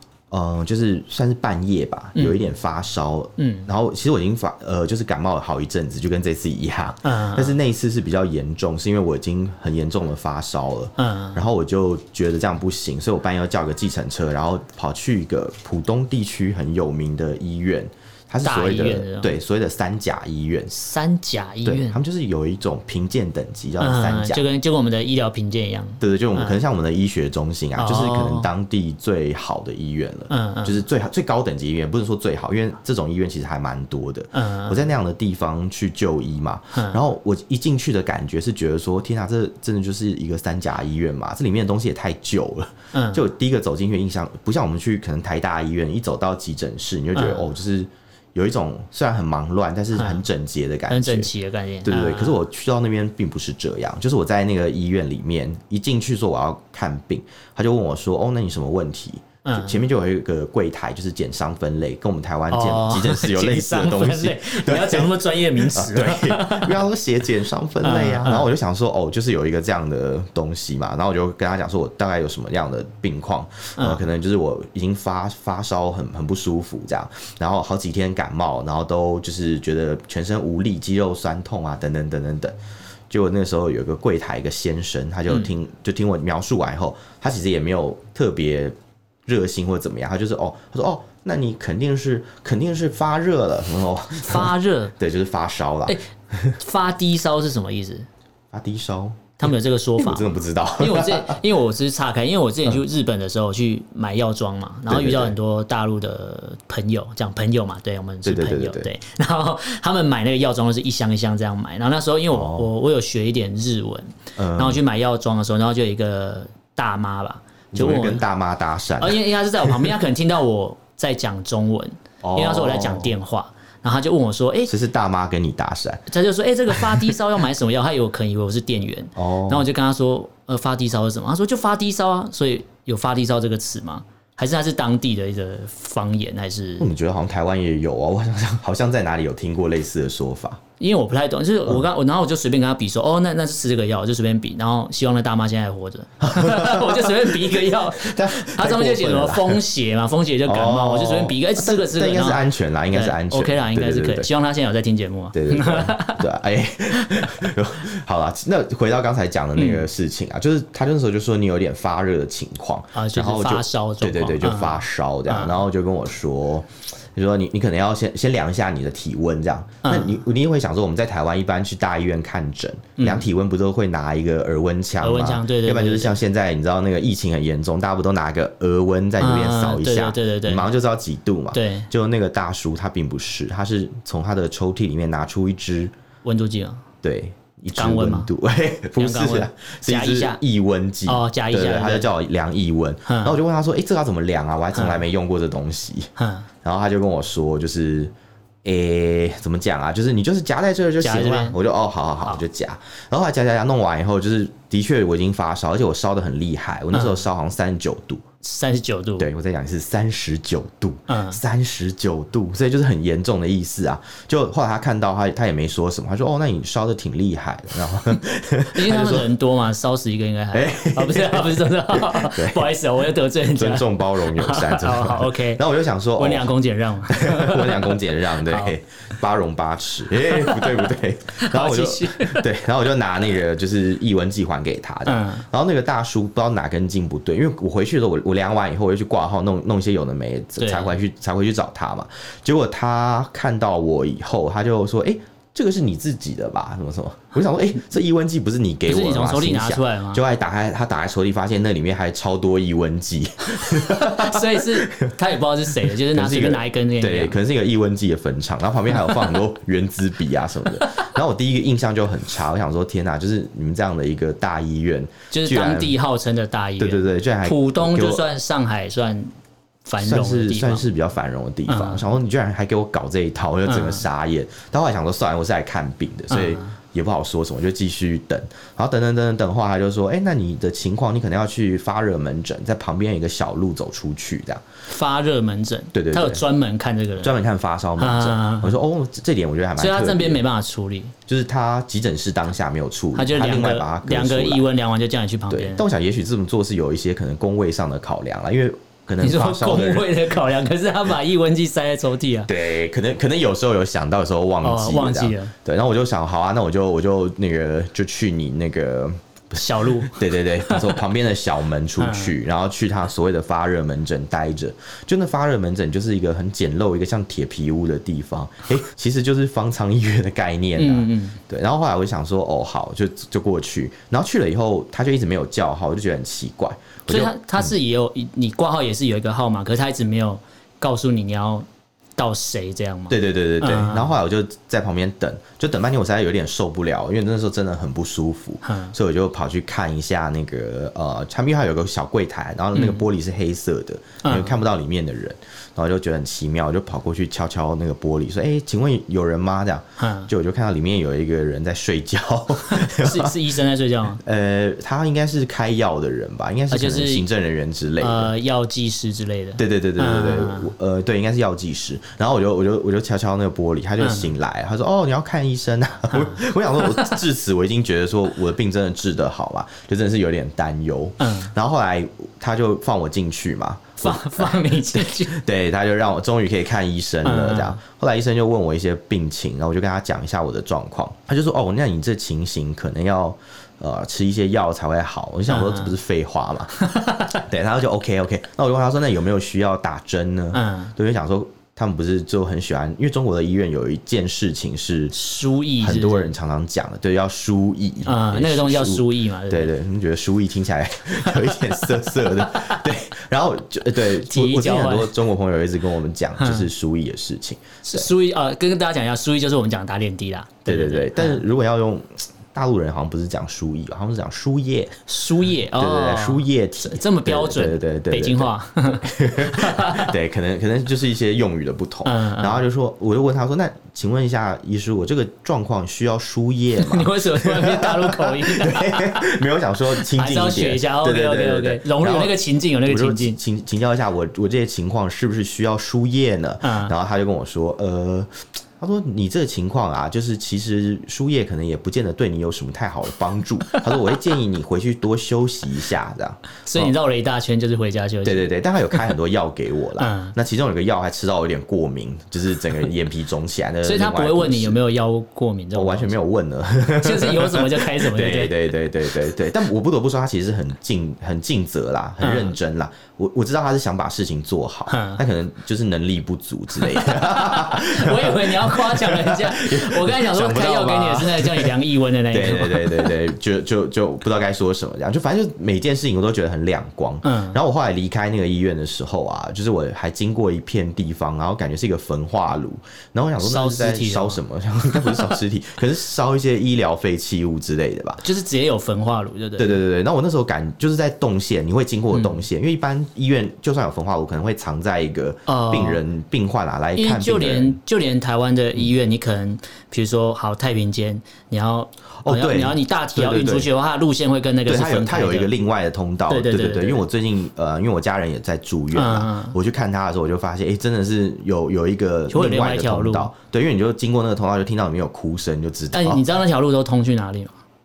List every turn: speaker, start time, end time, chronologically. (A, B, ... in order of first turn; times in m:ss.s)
0:00.3-0:20.7 A
0:02.2-0:02.4 B
0:03.4-0:03.7 B
0:07.0-0:07.6 B
0:11.0-0:11.4 B
0:18.4-0:19.4 B
0:20.7-0:22.0 B
0:21.6-0:24.4 A
0:23.8-0:26.6 B
0:26.0-0:51.3 A
0:27.8-0:28.5 B
0:30.3-0:30.8 B
0:34.3-0:34.9 B
0:36.7-0:37.0 B
0:42.9-0:43.2 B
0:47.1-0:47.5 B
0:50.0-0:50.2 B
0:50.9-0:52.4 B
0:51.8-1:22.6 A
0:59.4-0:59.8 B
1:02.5-1:06.8 B
1:07.8-1:08.5 B
1:13.8-1:14.0 B
1:23.1-1:28.7 A
1:29.2-1:36.6 A
1:34.2-1:34.9 B
1:36.6-1:38.1 B
1:38.5-1:41.4 A
1:39.4-1:58.2 B
1:44.9-1:45.4 A
1:48.2-1:48.9 A
1:52.3-1:52.7 A
1:54.4-1:54.8 A
1:57.7-1:59.9 A
1:59.0-2:04.7 B
2:02.2-2:03.2 A
2:04.7-2:06.1 A
2:06.1-2:16.9 B
2:06.7-2:07.1 A
2:09.2-2:09.7 A
2:16.8-2:20.6 A
2:20.8-2:36.2 B
2:26.2-2:29.6 A
2:30.4-2:34.3 A
2:35.3-3:05.9 A
2:39.6-2:39.8 B
2:42.9-2:45.6 B
2:49.8-2:50.2 B
2:53.0-2:53.2 B
2:55.0-2:56.2 B
2:59.2-3:00.7 B
3:01.5-3:01.9 B
3:06.2-3:06.8 B
3:07.0-3:16.1 A
3:07.7-3:08.3 B
3:09.0-3:10.4 B
3:11.0-3:12.1 B
3:13.1-3:13.4 B
3:14.7-3:15.0 B
3:16.2-3:16.5 B
3:16.6-3:28.2 A
3:21.0-3:21.6 B
3:26.9-3:27.2 B
3:28.4-3:29.3 B
3:29.2-3:39.3 A
3:31.1-3:31.4 B
3:38.7-3:45.6 B
3:40.5-3:42.7 A
3:43.5-3:46.5 A
3:46.2-3:48.7 B
3:47.1-4:15.1 A
3:50.3-3:52.4 B
3:55.0-3:55.4 B
4:00.6-4:00.9 B
4:08.9-4:10.2 B
4:13.7-4:17.4 B
4:15.8-4:26.0 A
4:25.3-4:29.3 B
4:26.8-4:28.2 A
4:29.8-4:30.9 B
4:30.0-4:44.6 A
4:31.7-4:32.1 B
4:33.6-4:34.0 B
4:36.3-4:36.7 B
4:44.9-4:47.4 B
4:45.9-4:46.4 A
4:47.2-4:50.4 A
4:48.0-4:48.7 B
4:49.8-4:51.1 B
4:51.3-4:54.7 A
4:53.1-4:55.8 B
4:55.5-5:00.1 A
4:59.2-5:02.5 B
5:02.5-5:27.7 A
5:04.6-5:05.5 B
5:09.5-5:11.0 B
5:12.0-5:12.3 B
5:20.8-5:21.4 B
5:27.1-5:31.6 B
5:32.2-5:34.1 B
5:33.1-5:53.4 A
5:38.6-5:38.9 B
5:42.7-5:43.0 B
5:44.2-5:44.6 B
5:50.0-5:50.3 B
5:52.6-5:54.2 B
5:54.2-5:58.3 A
5:56.7-5:57.2 B
5:58.0-6:00.7 B
5:59.6-6:26.8 A
6:04.0-6:04.3 B
6:06.1-6:07.2 B
6:11.2-6:11.5 B
6:14.0-6:15.4 B
6:17.2-6:17.8 B
6:25.5-6:25.9 B
6:26.8-6:27.4 B
6:27.3-6:35.1 A
6:30.5-6:30.9 B
6:35.1-6:36.3 B
6:35.8-6:48.1 A
6:38.0-6:39.7 B
6:41.3-6:41.8 B
6:42.4-6:42.8 B
6:44.1-6:45.1 B
6:46.4-6:46.7 B
6:47.8-6:51.4 B
6:50.6-6:55.0 A
6:55.1-7:00.1 B
6:55.8-7:26.9 A
7:02.0-7:02.6 B
7:06.8-7:09.3 B
7:10.0-7:13.4 B
7:16.6-7:16.9 B
7:26.6-7:29.0 B
7:28.2-7:34.8 A
7:30.0-7:30.3 B
7:33.8-7:36.2 B
7:35.7-7:51.8 A
7:37.0-7:38.7 B
7:42.2-7:42.5 B
7:44.9-7:45.2 B
7:46.8-7:53.1 B
7:52.3-8:08.2 A
7:57.2-7:57.6 B
8:03.4-8:04.4 B
8:04.9-8:05.3 B
8:08.2-8:09.8 B
8:09.6-8:17.8 A
8:12.1-8:12.4 B
8:15.5-8:16.0 B
8:17.0-8:25.5 B
8:22.2-8:23.7 A
8:24.6-8:36.2 A
8:26.3-8:27.0 B
8:28.9-8:29.6 B
8:32.3-8:33.3 B
8:35.9-8:37.5 B